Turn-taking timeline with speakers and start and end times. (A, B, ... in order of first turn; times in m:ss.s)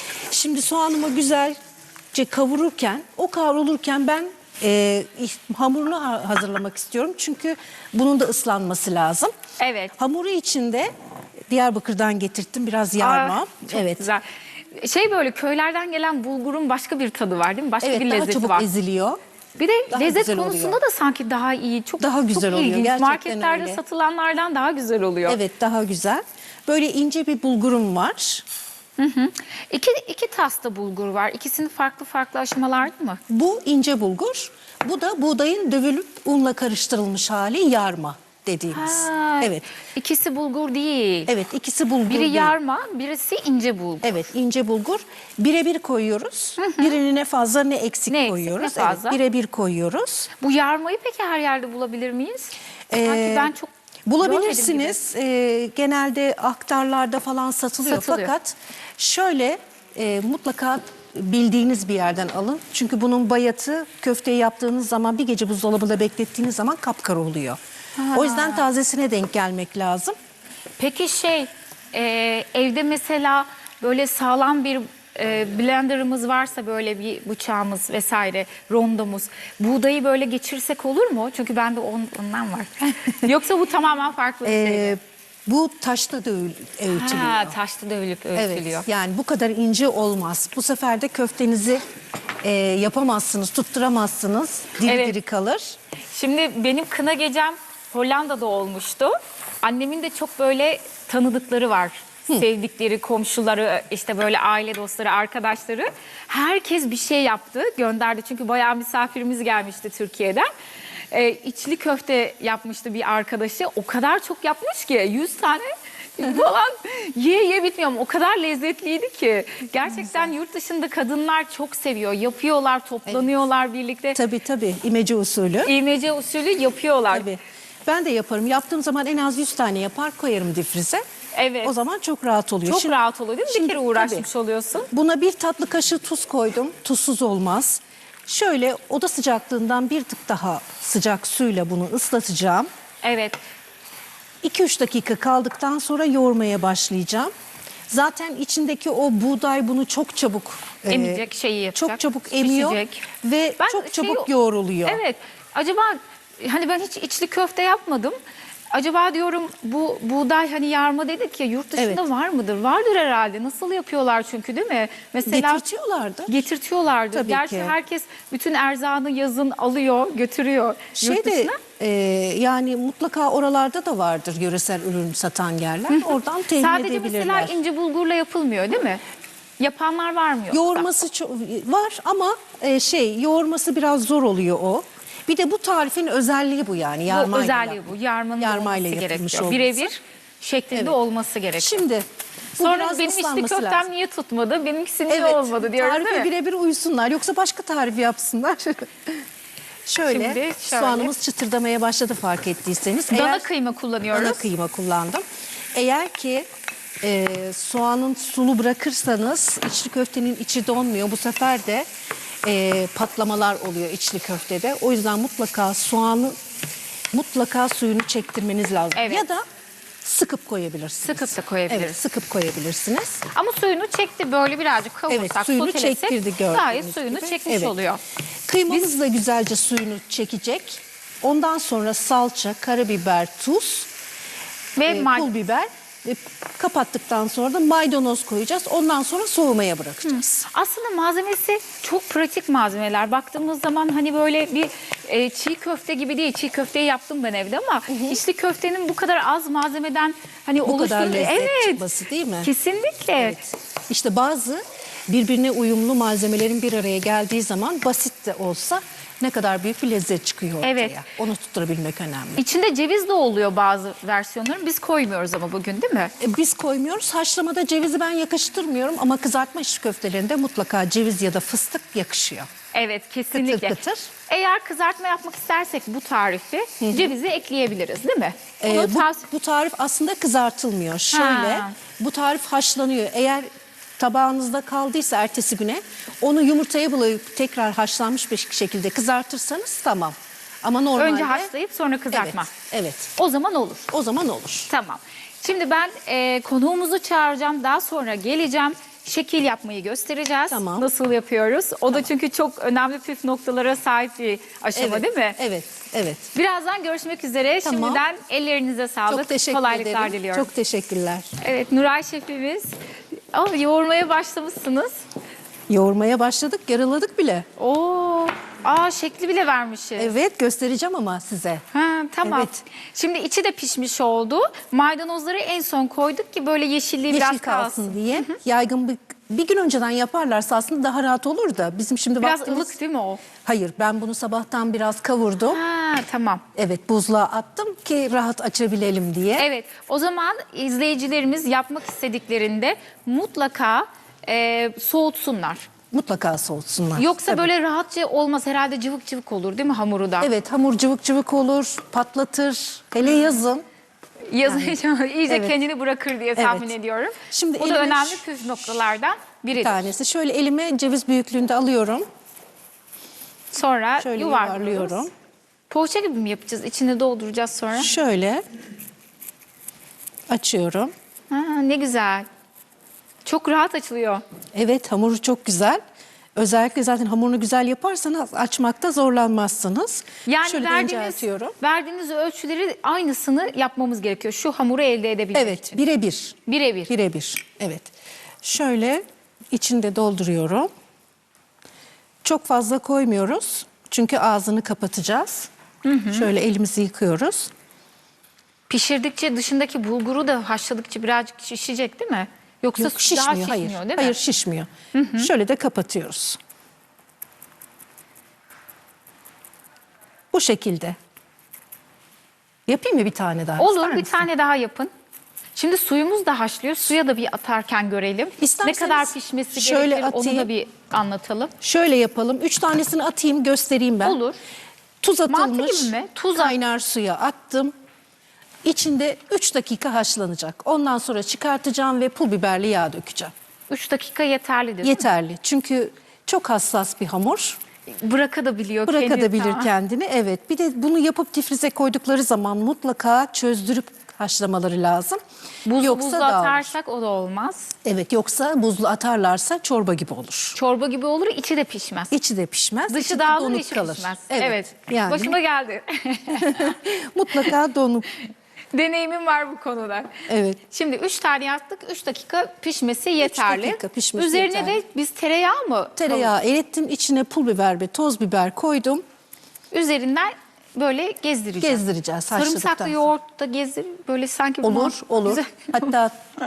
0:00.3-0:01.6 A
0:02.1-0:09.3 A
0:09.6-0:10.0 B
0:10.0-0:10.9 A
0:11.5-0:14.1 A
0:13.0-0:18.7 B
0:17.8-0:19.2 A
0:19.6-0:25.4 B
0:19.9-0:20.8 A
0:22.0-0:23.8 A
0:25.3-0:28.4 A
0:29.0-0:33.2 B
0:33.3-0:39.7 A
0:38.7-0:41.3 B
0:41.3-0:42.5 A
0:42.1-0:44.3 B
0:44.0-0:50.3 A
0:46.6-0:47.0 B
0:48.1-0:49.2 B
0:50.4-0:55.0 B
0:52.9-0:53.5 A
0:54.0-1:07.6 A
0:57.8-0:58.3 B
1:08.0-1:08.6 B
1:08.1-1:10.1 A
1:10.8-1:25.0 B
1:24.4-1:27.6 A
1:26.9-1:28.8 B
1:28.3-1:31.8 A
1:32.4-1:35.8 A
1:34.8-1:35.2 B
1:36.1-1:50.5 B
1:51.1-2:04.2 B
1:59.9-2:00.3 A
2:04.1-2:05.7 A
2:05.6-2:07.3 B
2:07.1-2:11.0 A
2:11.3-2:11.7 B
2:11.6-2:14.3 A
2:12.6-2:14.9 B
2:14.9-2:22.7 A
2:23.0-2:23.4 B
2:24.4-2:27.3 A
2:27.9-2:31.2 A
2:30.9-2:33.1 B
2:31.7-2:35.0 A
2:33.6-2:34.3 B
2:34.8-2:38.2 B
2:38.7-2:45.6 B
2:41.8-2:42.0 A
2:45.2-2:46.3 A
2:46.3-2:51.6 B
2:47.1-2:47.8 A
2:51.0-2:57.6 A
2:55.9-2:59.0 B
2:59.6-3:00.9 B
3:00.5-3:09.9 A
3:07.1-3:11.8 B
3:11.6-3:13.9 A
3:12.6-3:16.3 B
3:15.1-3:19.2 A
3:19.8-3:23.5 A
3:20.1-3:21.1 B
3:23.1-3:24.4 B
3:24.1-3:26.5 A
3:27.0-3:31.9 A
3:32.4-3:36.3 A
3:37.1-3:39.4 A
3:38.9-3:39.2 B
3:40.0-3:43.2 A
3:41.0-3:42.0 B
3:43.3-3:48.0 B
3:45.1-3:47.7 A
3:48.5-3:53.9 A
3:54.8-3:55.3 B
3:54.8-4:00.4 A
4:00.1-4:11.8 B
4:07.9-4:08.2 A
4:10.6-4:12.5 A
4:12.4-4:13.4 B
4:13.2-4:22.4 A
4:20.6-4:20.9 B
4:22.4-4:26.1 B
4:26.2-4:32.5 A
4:32.7-4:33.8 B
4:33.3-4:34.1 A
4:34.3-4:39.2 B
4:36.8-4:37.1 A
4:38.6-4:51.5 A
4:41.1-4:41.8 B
4:51.0-4:52.5 B
4:52.1-4:53.1 A
4:53.2-4:53.9 B
4:53.9-4:54.7 A
4:54.7-5:05.4 B
5:00.5-5:00.9 A
5:04.7-5:06.3 A
5:06.3-5:10.5 B
5:07.6-5:08.0 A
5:09.1-5:11.3 A
5:11.4-5:12.7 B
5:13.3-5:15.0 B
5:15.7-5:17.4 A
5:17.6-5:20.1 B
5:20.0-5:21.6 A
5:21.7-5:28.4 B
5:22.2-5:22.6 A
5:27.1-5:32.7 A
5:32.2-5:33.2 B
5:33.4-5:35.6 A
5:35.5-5:36.4 B
5:36.5-5:39.5 A
5:39.4-5:45.7 B
5:45.9-5:47.5 A
5:47.0-5:50.3 B
5:50.2-5:53.6 A
5:54.3-5:59.9 B
5:54.4-5:54.8 A
5:55.3-5:55.6 A
5:56.4-5:56.7 A
5:57.3-5:58.2 A
5:59.5-6:02.0 A
6:03.5-6:05.1 B
6:04.0-6:05.1 A
6:05.7-6:07.9 B
6:07.8-6:08.4 A
6:10.3-6:10.9 A
6:11.3-6:12.3 B
6:13.2-6:14.2 B
6:14.5-6:15.8 A
6:16.4-6:21.5 A
6:20.2-6:25.8 B
6:25.3-6:30.7 A
6:26.5-6:26.9 B
6:32.2-6:35.5 A
6:35.8-6:36.3 B
6:36.1-6:37.5 A
6:38.7-6:44.2 B
6:42.8-6:46.4 A
6:44.9-6:45.3 B
6:50.3-6:51.0 A
6:52.7-6:54.3 A
6:53.6-6:54.9 B
6:55.5-7:01.5 B
6:58.4-7:00.5 A
7:01.6-7:04.2 A
7:04.0-7:04.4 B
7:05.0-7:07.7 A
7:05.3-7:06.5 B
7:08.6-7:13.3 A
7:13.7-7:15.1 B
7:14.8-7:17.6 A
7:17.9-7:19.7 B
7:18.9-7:25.2 A
7:25.6-7:27.7 B
7:25.7-7:26.7 A
7:27.8-7:30.6 A
7:30.6-7:32.1 B
7:32.1-7:35.4 A
7:32.9-7:36.8 B
7:36.4-7:38.1 A
7:38.7-7:40.1 B
7:40.3-7:40.6 A
7:40.7-7:46.3 B
7:43.2-7:44.8 A
7:46.0-7:49.0 A
7:49.7-7:55.9 B
7:51.6-7:53.1 A
7:54.6-7:56.2 A